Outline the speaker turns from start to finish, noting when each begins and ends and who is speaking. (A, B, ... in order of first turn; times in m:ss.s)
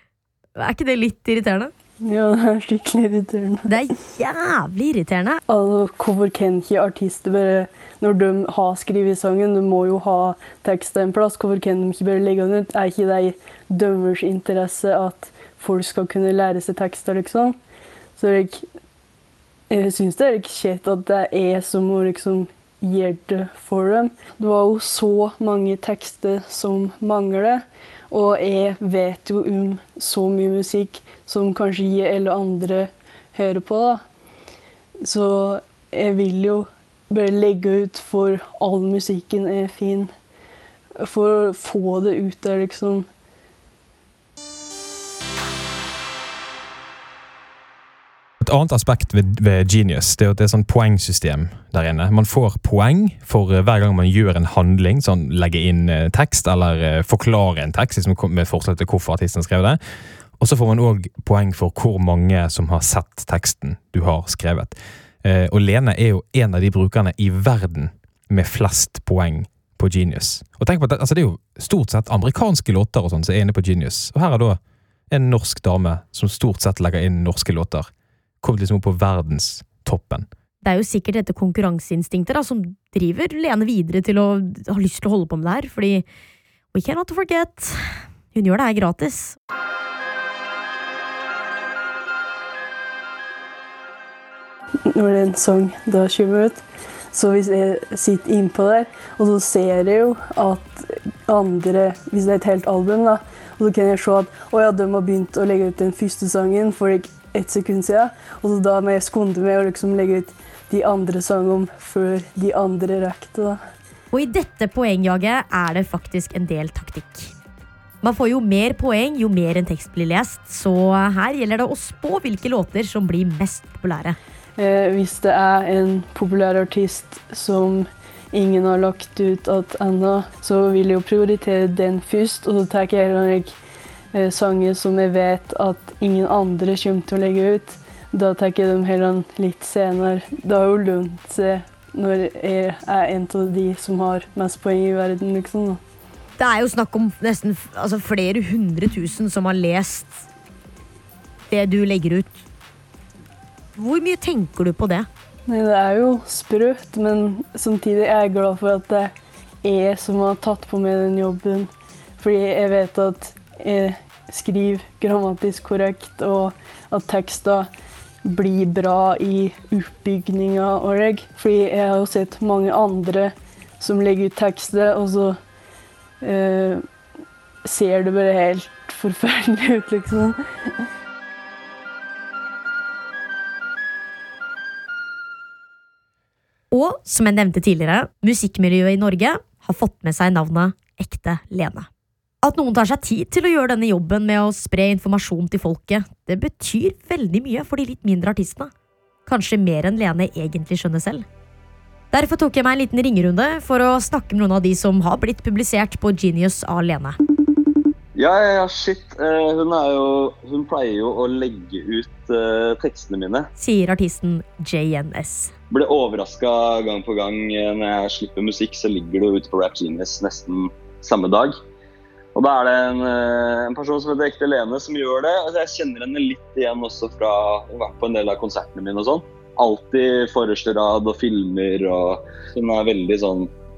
0:00.5-0:01.7 A
0:02.0-0:03.7 B
0:03.6-0:05.4 A
0:05.5-0:17.6 B
0:18.2-0:18.6 B
0:19.7-0:34.0 B
0:35.0-0:40.1 B
0:41.0-0:43.1 B
0:48.4-0:59.8 C
1:00.4-1:14.6 C
1:15.1-1:17.9 C
1:18.4-1:20.2 C
1:20.6-1:26.0 A
1:26.7-1:29.4 A
1:34.9-1:53.6 B
1:54.1-1:57.3 A
1:58.0-2:04.2 A
2:04.6-2:13.5 B
2:14.1-2:25.8 B
2:26.4-2:30.2 A
2:31.5-2:32.4 A
2:33.8-2:35.1 A
2:35.5-2:47.7 B
2:48.2-2:55.4 B
2:56.2-2:56.8 B
2:57.6-3:00.4 B
3:06.7-3:11.9 A
3:12.4-3:18.7 A
3:19.2-3:21.2 A
3:22.1-3:27.2 A
3:28.1-3:33.5 D
3:33.6-3:35.5 A
3:35.7-3:41.6 D
3:42.3-3:53.5 D